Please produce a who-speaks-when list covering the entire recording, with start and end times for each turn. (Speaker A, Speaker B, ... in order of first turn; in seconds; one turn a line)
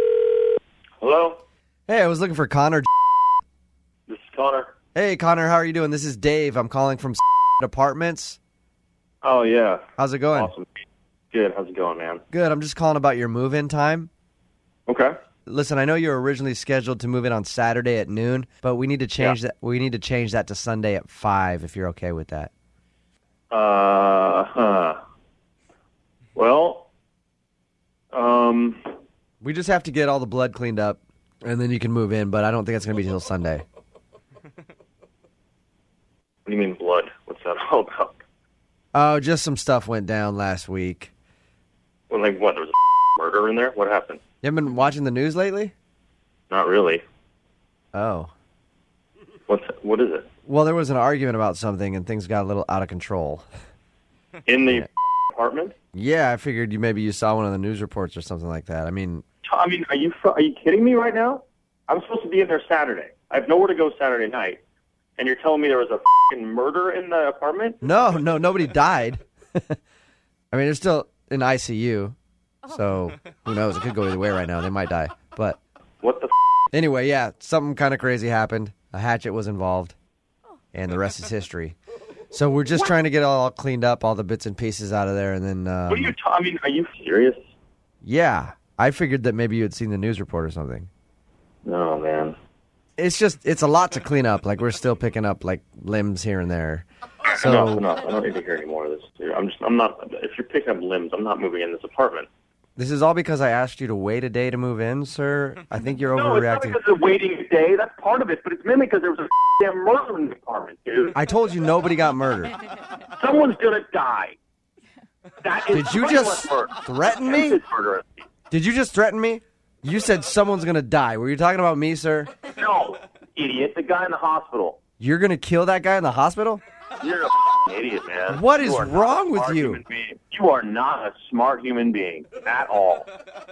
Speaker A: 1.0-1.4
Speaker B: 1.9-2.9
Speaker A: 4.1-4.7
Speaker B: 5.0-8.4
Speaker A: 9.2-9.8
Speaker B: 10.0-10.5
Speaker A: 10.3-12.2
Speaker B: 12.3-14.1
Speaker A: 14.9-15.1
Speaker B: 15.4-22.5
Speaker A: 23.5-25.0
Speaker A: 26.4-26.9
Speaker A: 28.1-28.9
Speaker B: 29.4-33.6
Speaker A: 36.5-38.2
Speaker B: 38.9-41.1
Speaker A: 42.1-44.2
Speaker B: 44.4-45.7
Speaker A: 46.5-47.0
Speaker B: 47.9-48.3
Speaker A: 49.5-50.2
Speaker B: 50.5-53.5
Speaker A: 54.5-55.7
Speaker B: 55.9-59.2
Speaker A: 59.4-64.6
Speaker A: 65.2-67.8
Speaker B: 67.8-69.8
Speaker B: 70.5-72.2
Speaker B: 72.7-75.6
Speaker A: 76.0-76.3
Speaker B: 76.7-80.0
Speaker B: 80.7-81.8
Speaker B: 82.3-86.1
Speaker A: 85.9-87.5
Speaker B: 88.0-90.9
Speaker A: 91.6-92.4
Speaker B: 93.0-96.9
Speaker A: 97.3-102.3
Speaker B: 97.4-97.8
Speaker B: 102.8-106.8
Speaker A: 106.1-111.2
Speaker B: 111.1-112.6
Speaker A: 113.2-114.4
Speaker A: 115.4-118.2
Speaker B: 115.7-117.6
Speaker B: 118.5-122.3
Speaker A: 122.6-124.8
Speaker B: 125.0-126.6
Speaker A: 127.0-133.1
Speaker B: 128.3-129.8